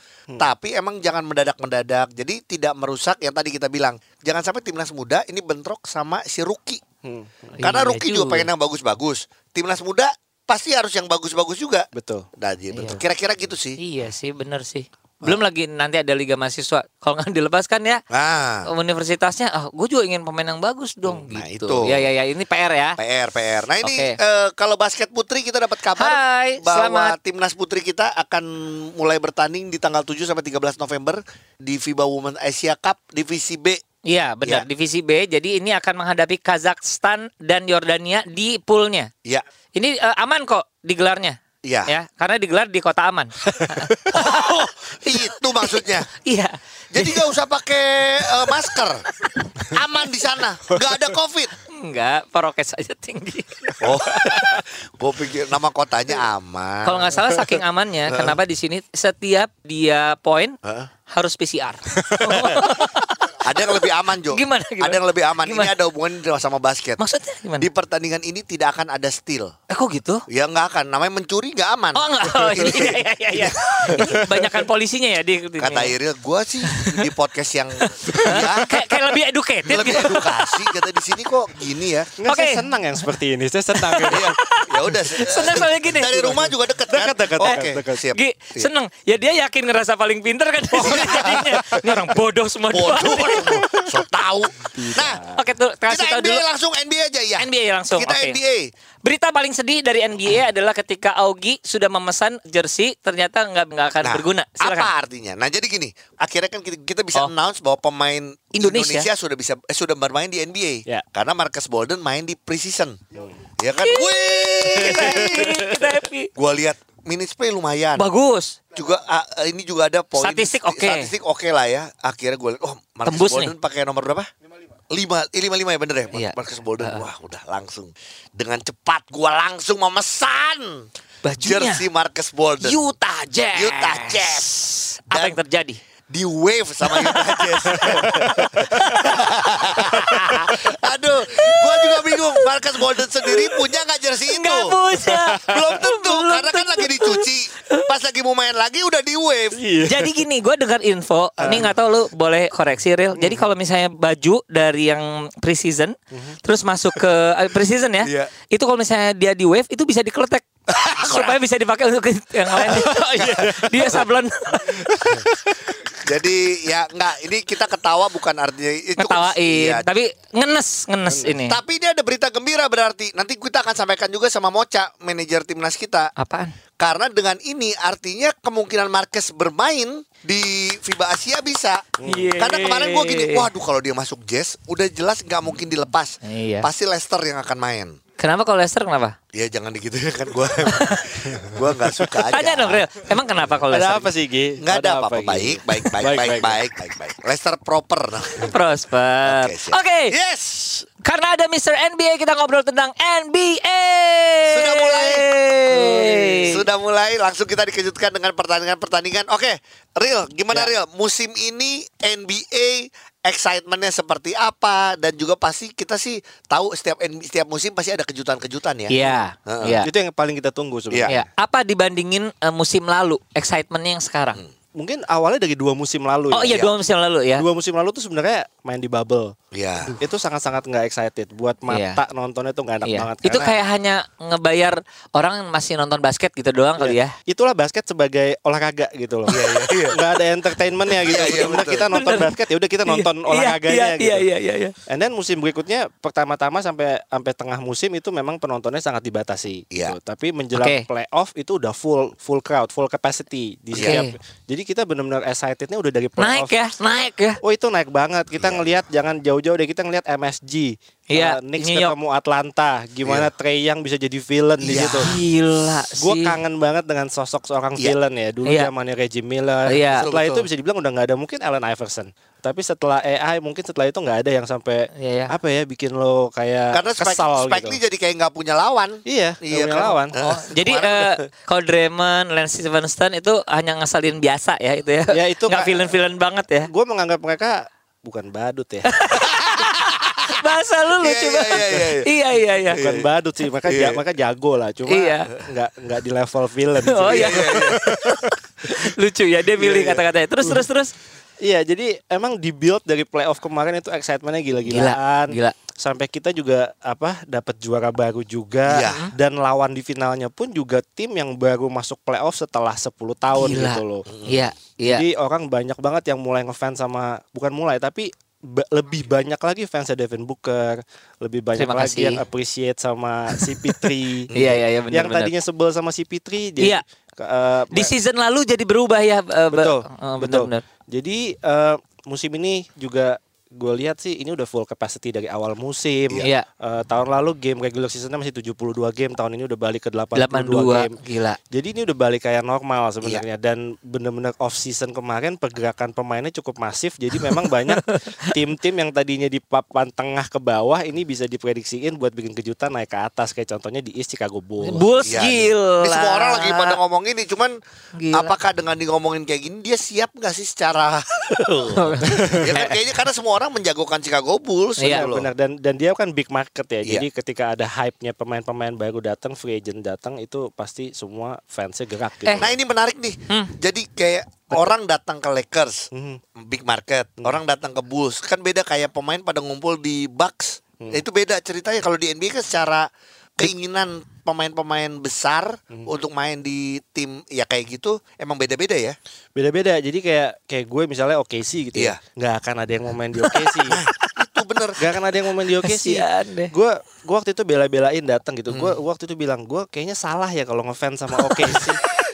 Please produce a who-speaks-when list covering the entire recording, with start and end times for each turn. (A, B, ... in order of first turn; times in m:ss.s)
0:00.4-0:06.8 A
0:07.0-0:07.7 B
0:07.6-0:08.5 C
0:07.6-0:13.8 A
0:11.9-0:13.0 B
0:13.8-0:18.0 C
0:18.1-0:18.7 A
0:18.6-0:23.0 C
0:21.1-0:22.1 A
0:23.0-0:33.8 A
0:23.8-0:24.2 C
0:26.0-0:27.2 C
0:34.0-0:39.1 C
0:39.8-0:47.4 C
0:41.6-0:41.9 A
0:43.6-0:44.1 B
0:44.1-0:46.1 A
0:46.9-0:49.0 A
0:48.2-0:48.7 C
0:49.7-0:51.5 A
0:51.7-0:54.6 C
0:53.8-0:57.2 A
0:56.8-1:00.6 C
0:58.1-0:58.4 A
1:00.6-1:00.9 A
1:01.1-1:03.4 C
1:02.0-1:02.6 B
1:03.4-1:07.0 A
1:04.3-1:05.7 C
1:07.0-1:07.7 C
1:07.6-1:09.5 A
1:09.7-1:10.2 C
1:10.3-1:14.2 A
1:12.0-1:16.0 C
1:13.9-1:14.6 B
1:15.6-1:18.7 A
1:16.6-1:17.1 C
1:18.1-1:18.8 B
1:18.1-1:20.7 C
1:19.6-1:22.1 A
1:22.2-1:24.4 B
1:22.3-1:22.7 C
1:23.8-1:26.4 C
1:24.1-1:28.7 A
1:26.4-1:28.0 B
1:27.4-1:33.7 C
1:30.8-1:31.6 A
1:30.8-1:32.0 B
1:32.7-1:35.2 A
1:34.6-1:35.4 B
1:35.4-1:36.4 C
1:35.9-1:38.7 A
1:37.4-1:38.4 C
1:39.0-1:44.9 C
1:44.0-1:53.0 A
1:48.6-1:49.1 C
1:53.2-1:53.4 B
1:53.6-1:55.7 A
1:53.8-1:56.3 C
1:54.7-1:55.8 B
1:56.3-1:58.1 A
1:58.0-1:58.6 C
1:58.7-2:04.3 A
2:00.2-2:01.1 C
2:03.1-2:03.5 C
2:04.9-2:10.9 A
2:06.1-2:07.1 C
2:11.2-2:11.8 C
2:11.4-2:12.8 A
2:12.6-2:15.8 C
2:13.5-2:14.5 A
2:15.1-2:15.4 A
2:16.1-2:24.8 A
2:16.9-2:18.1 C
2:17.7-2:19.1 B
2:18.7-2:19.3 C
2:19.7-2:20.6 B
2:19.8-2:20.6 C
2:21.3-2:22.5 C
2:23.2-2:23.6 C
2:24.3-2:27.9 C
2:25.0-2:25.6 B
2:25.4-2:29.6 A
2:29.6-2:30.2 B
2:29.8-2:45.1 C
2:31.4-2:31.7 A
2:31.4-2:31.7 B
2:33.2-2:33.5 B
2:36.1-2:36.4 B
2:38.0-2:38.3 A
2:40.7-2:41.4 A
2:42.5-2:44.1 A
2:44.8-2:45.7 B
2:44.9-2:45.2 A
2:45.9-2:49.9 A
2:49.0-2:51.6 C
2:51.0-2:51.4 B
2:51.4-2:56.1 A
2:56.2-2:56.6 C
2:56.8-3:08.0 A
3:02.0-3:02.4 B
3:02.0-3:03.5 C
3:06.2-3:06.7 C
3:08.2-3:09.2 C
3:09.3-3:12.9 A
3:10.7-3:11.1 C
3:11.3-3:11.6 B
3:12.3-3:14.1 C
3:13.7-3:16.6 B
3:14.6-3:18.6 A
3:18.4-3:20.2 C
3:19.2-3:20.9 A
3:21.0-3:26.6 C
3:24.4-3:25.3 A
3:25.8-3:26.4 B
3:26.0-3:39.8 A
3:38.9-3:39.9 C
3:39.8-3:41.3 B
3:41.1-3:44.4 C
3:44.8-3:46.6 B
3:46.3-3:47.5 C
3:47.4-3:49.4 B
3:49.5-3:50.0 A
3:50.0-3:53.5 B
3:51.7-3:52.0 C
3:52.9-3:57.1 C
3:56.8-4:04.3 B
3:59.3-4:00.0 A
4:01.0-4:01.9 A
4:01.2-4:04.8 C
4:04.9-4:16.5 B
4:10.5-4:10.8 C
4:13.7-4:14.0 A
4:13.8-4:14.1 C
4:16.2-4:17.4 C
4:17.4-4:25.1 B
4:18.4-4:18.8 A
4:21.1-4:21.9 C
4:23.0-4:23.3 A
4:24.6-4:25.2 A
4:24.8-4:26.4 C
4:26.0-4:37.8 B
4:28.4-4:28.7 C
4:29.7-4:30.1 C
4:30.0-4:30.5 A
4:35.0-4:35.3 C
4:36.7-4:41.2 A
4:39.1-4:40.2 B
4:40.2-4:46.7 C
4:45.1-4:45.9 B
4:46.7-4:49.0 B
4:48.9-4:52.8 C
4:49.6-4:50.1 A
4:51.0-4:52.1 A
4:52.6-4:53.1 A
4:52.7-4:58.4 B
4:53.6-4:54.0 A
4:54.9-4:55.3 C
4:56.9-5:00.9 C
4:57.0-4:57.9 A
4:59.6-5:00.6 B
5:01.4-5:14.1 B
5:04.7-5:05.6 C
5:08.7-5:09.1 A
5:08.8-5:09.1 C
5:13.3-5:15.0 C
5:14.1-5:14.5 A
5:14.8-5:24.3 B
5:21.6-5:22.2 C
5:23.3-5:25.3 C
5:24.3-5:24.6 A
5:24.9-5:27.9 B
5:27.7-5:30.6 C
5:29.5-5:41.0 B
5:40.2-5:41.4 C
5:41.5-5:55.3 B
5:47.7-5:48.0 C
5:54.6-5:56.8 C
5:55.0-5:57.6 A
5:58.0-5:58.3 C
5:58.1-6:05.3 A
6:01.7-6:02.8 C
6:02.0-6:02.5 B
6:04.8-6:05.1 C
6:04.8-6:12.6 B
6:12.4-6:29.0 A
6:15.9-6:16.2 B
6:29.4-6:33.8 B
6:33.3-6:33.6 C
6:33.7-6:34.8 A
6:34.8-6:41.8 B
6:35.6-6:36.5 C
6:41.2-6:41.8 C